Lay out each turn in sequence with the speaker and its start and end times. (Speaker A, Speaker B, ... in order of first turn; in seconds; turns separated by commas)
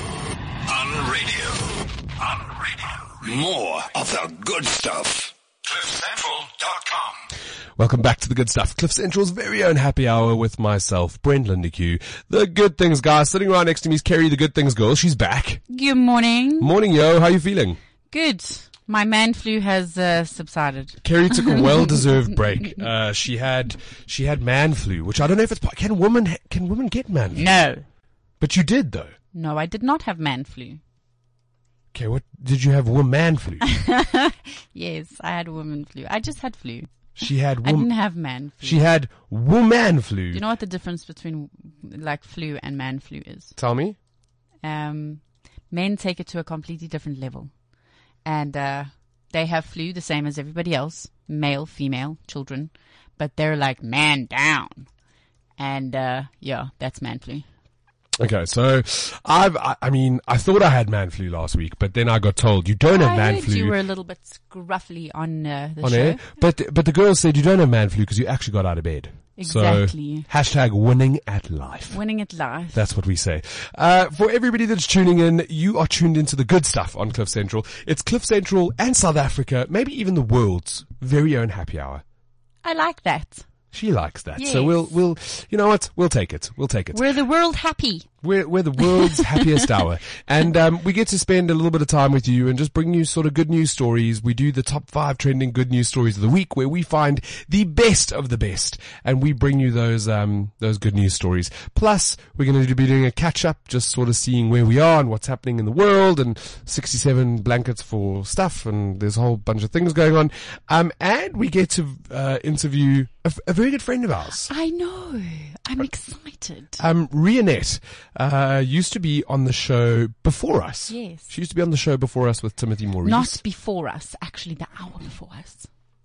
Speaker A: 0.7-7.2, Speaker B: 7.8-15.6, Speaker C: 15.7-16.7, Speaker B: 16.6-17.8, Speaker C: 18.1-21.9, Speaker B: 21.0-27.6, Speaker C: 27.4-27.8, Speaker B: 28.4-29.1, Speaker C: 29.3-30.8, Speaker B: 31.9-33.7, Speaker C: 33.6-37.1, Speaker B: 37.2-37.9, Speaker C: 37.6-38.8, Speaker B: 38.6-40.4, Speaker C: 40.3-43.5, Speaker B: 43.5-44.0, Speaker C: 44.6-47.5, Speaker C: 48.2-54.9, Speaker C: 55.6-57.5, Speaker B: 58.2-63.8, Speaker C: 62.9-66.2, Speaker B: 65.8-72.0, Speaker C: 69.4-70.3, Speaker C: 71.9-72.8, Speaker B: 72.7-82.0, Speaker C: 82.6-83.5, Speaker B: 83.7-87.0, Speaker C: 84.4-84.9, Speaker C: 86.9-88.1, Speaker B: 88.2-114.5, Speaker C: 88.8-89.4, Speaker C: 114.5-116.8, Speaker B: 116.8-123.4, Speaker C: 120.9-121.3, Speaker C: 123.0-125.7